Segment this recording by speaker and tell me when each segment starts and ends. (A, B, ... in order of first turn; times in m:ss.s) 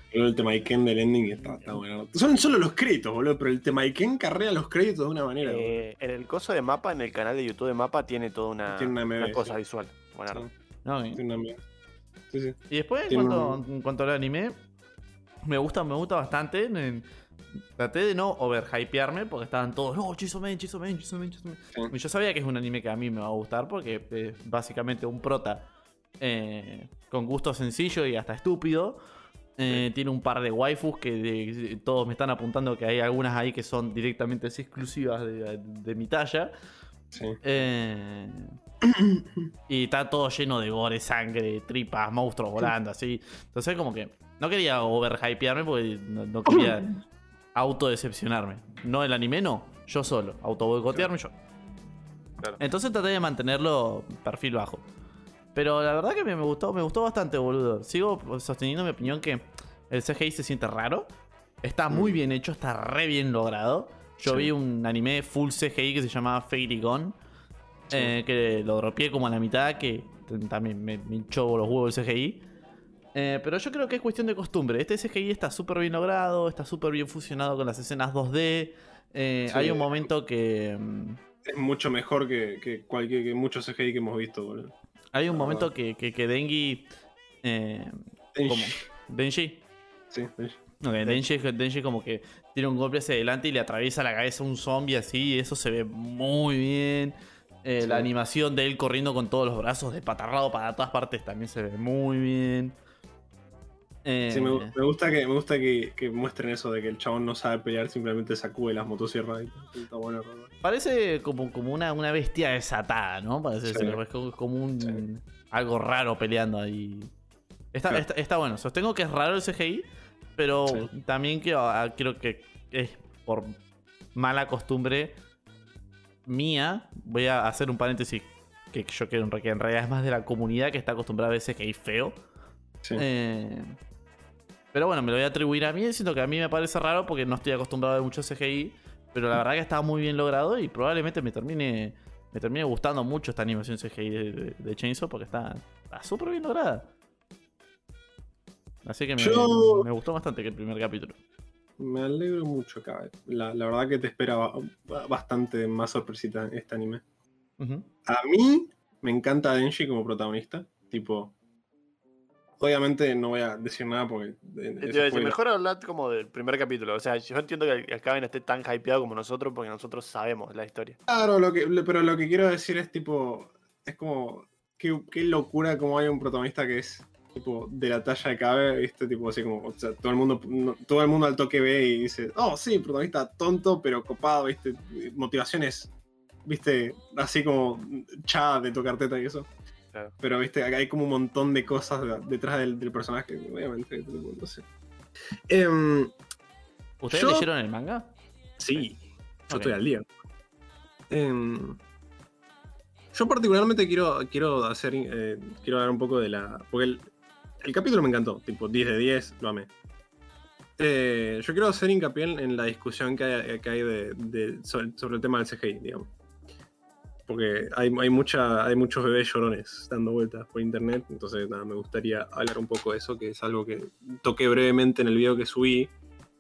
0:00.1-0:05.8 A
0:05.4-0:10.4 B
0:08.7-0:09.5 A
0:10.8-0:11.2 C
0:11.1-0:11.6 A
0:12.3-0:12.6 A
0:12.7-0:14.6 C
0:13.1-0:13.6 A
0:15.4-0:17.0 C
0:17.8-0:25.6 C
0:26.2-0:29.0 C
0:29.6-0:36.5 C
0:37.1-0:37.4 A
0:37.4-0:38.6 C
0:38.8-0:39.5 A
0:39.7-0:47.0 C
0:46.5-0:46.8 A
0:47.5-0:51.3 C
0:52.6-0:54.8 C
0:55.5-1:01.1 C
1:01.6-1:07.2 C
1:07.9-1:12.4 C
1:13.1-1:21.2 C
1:19.5-1:20.0 A
1:21.4-1:24.7 A
1:25.1-1:26.9 C
1:25.3-1:25.7 A
1:27.4-1:29.6 C
1:28.3-1:28.8 A
1:30.1-1:31.2 A
1:30.8-1:42.8 C
1:37.8-1:38.1 A
1:44.0-1:44.7 C
1:44.3-1:50.5 A
1:50.6-1:57.1 C
1:53.7-1:54.0 A
1:57.7-2:03.6 C
2:04.1-2:05.2 C
2:06.3-2:12.2 C
2:13.0-2:13.7 C
2:14.7-2:26.9 C
2:28.8-2:31.2 C
2:29.2-2:29.8 A
2:31.8-2:37.0 A
2:37.6-2:37.9 C
2:38.0-2:41.3 A
2:42.6-2:45.4 A
2:44.8-2:51.0 B
2:51.1-3:05.9 A
3:06.4-3:09.5 A
3:10.2-3:14.6 A
3:15.5-3:16.1 A
3:17.0-3:18.1 C
3:17.1-3:17.5 A
3:18.6-3:20.0 A
3:21.1-3:21.8 A
3:23.1-3:27.1 A
3:27.6-3:29.7 A
3:30.8-3:36.1 A
3:37.3-3:45.9 A